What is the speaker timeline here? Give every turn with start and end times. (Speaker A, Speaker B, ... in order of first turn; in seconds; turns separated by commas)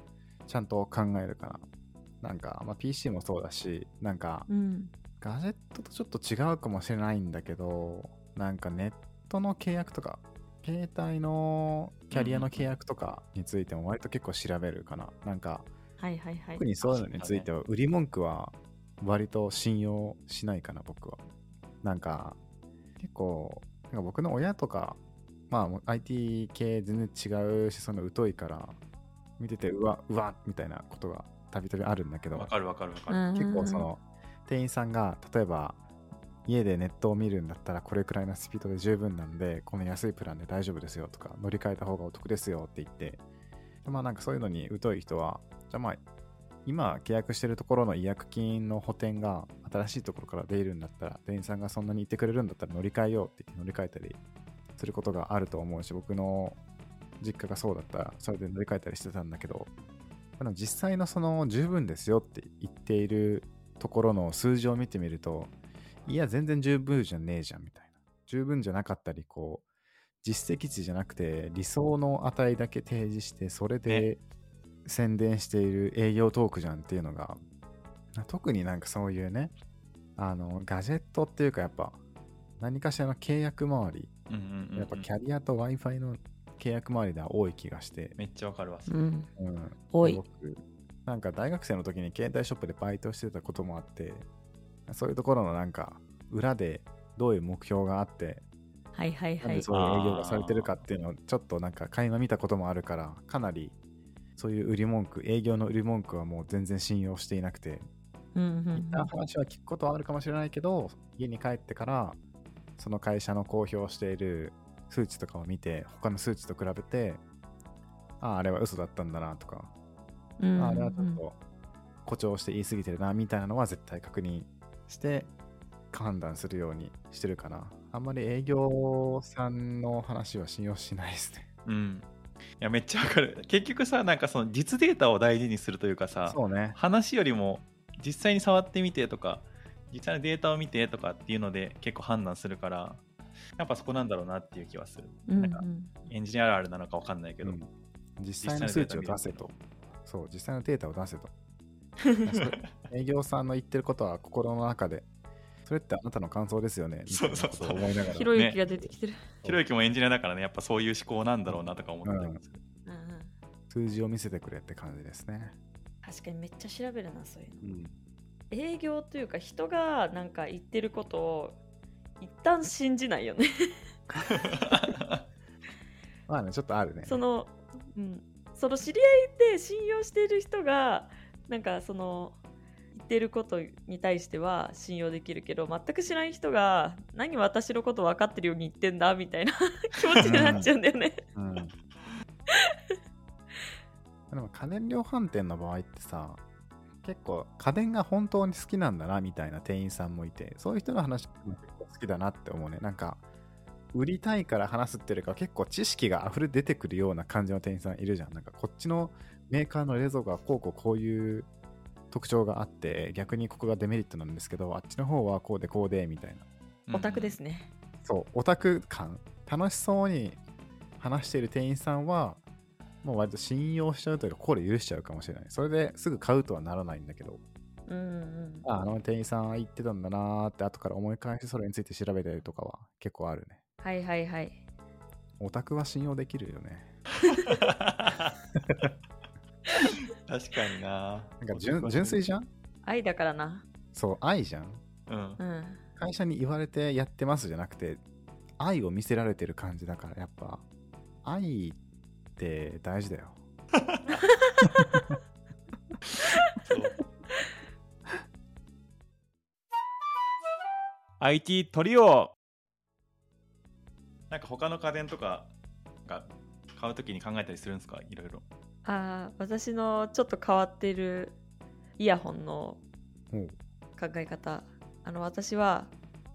Speaker A: 0.5-1.6, Speaker A: 2.2-4.5, Speaker B: 4.5-4.9, Speaker A: 5.2-15.7, Speaker C: 12.1-12.7, Speaker B: 16.0-16.6, Speaker A: 16.6-21.2, Speaker C: 16.8-17.5, Speaker A: 21.8-22.4, Speaker A: 23.0-25.0, Speaker A: 25.5-28.8, Speaker A: 29.4-32.5, Speaker C: 32.3-33.2, Speaker B: 33.1-33.9, Speaker A: 33.3-35.8, Speaker A: 36.4-43.2, Speaker A: 43.8-46.0, Speaker A: 46.6-54.2, Speaker A: 54.8-56.6, Speaker A: 57.2-59.7, Speaker A: 60.4-65.5, Speaker A: 66.0-69.6, Speaker A: 70.2-74.2, Speaker A: 74.8-77.4, Speaker A: 78.1-79.5, Speaker A: 80.2-82.0, Speaker A: 82.6-84.1, Speaker C: 84.3-85.1, Speaker A: 84.8-88.2, Speaker C: 88.2-88.9, Speaker B: 88.9-89.3, Speaker A: 89.4-94.2, Speaker B: 89.9-90.2, Speaker A: 94.9-98.4, Speaker B: 98.9-99.7, Speaker A: 99.4-103.8, Speaker C: 99.7-100.8, Speaker A: 104.4-107.9, Speaker B: 108.3-109.1, Speaker A: 108.7-112.2, Speaker A: 112.8-117.2, Speaker A: 118.2-119.7, Speaker B: 120.4-121.2, Speaker A: 120.6-121.4, Speaker A: 122.0-125.3, Speaker A: 125.9-131.5, Speaker C: 131.7-132.1, Speaker C: 132.6-143.0, Speaker A: 136.2-136.8, Speaker C: 143.6-147.6, Speaker B: 145.3-145.9, Speaker A: 147.4-149.5, Speaker C: 148.4-149.5, Speaker A: 150.1-151.3, Speaker A: 152.2-155.1, Speaker A: 155.6-158.3, Speaker C: 157.1-158.6, Speaker B: 158.1-159.3, Speaker C: 159.4-162.6, Speaker A: 161.5-162.4, Speaker B: 162.9-163.3, Speaker A: 163.7-165.6, Speaker B: 166.0-167.7, Speaker A: 167.6-167.9, Speaker B: 168.5-171.6, Speaker B: 172.2-173.7, Speaker C: 174.3-175.2, Speaker A: 176.3-177.2, Speaker B: 177.1-182.3, Speaker B: 182.9-191.2, Speaker A: 190.2-190.7, Speaker C: 190.3-190.5, Speaker A: 191.3-191.7, Speaker A: 194.3-196.4, Speaker A: 197.0-203.2, Speaker A: 203.9-211.5, Speaker A: 212.1-216.4, Speaker C: 216.9-217.4, Speaker B: 216.9-217.7, Speaker A: 218.0-220.4, Speaker A: 221.0-222.4, Speaker A: 223.0-227.4, Speaker B: 227.9-228.7, Speaker A: 228.6-233.6, Speaker B: 233.8-234.6, Speaker A: 235.4-236.9, Speaker C: 237.4-238.3, Speaker C: 239.9-242.2, Speaker A: 241.4-242.5, Speaker B: 242.8-243.6, Speaker A: 243.9-244.8, Speaker C: 245.1-245.4, Speaker B: 245.4-245.8, Speaker A: 246.0-248.0, Speaker A: 248.6-250.6, Speaker A: 251.2-251.8, Speaker A: 252.3-253.4, Speaker B: 254.1-255.0, Speaker C: 256.6-257.0, Speaker C: 261.2-262.3, Speaker C: 264.3-265.5, Speaker C: 266.1-268.4, Speaker B: 268.8-271.4, Speaker B: 272.0-272.8, Speaker A: 273.3-273.6, Speaker B: 274.0-275.9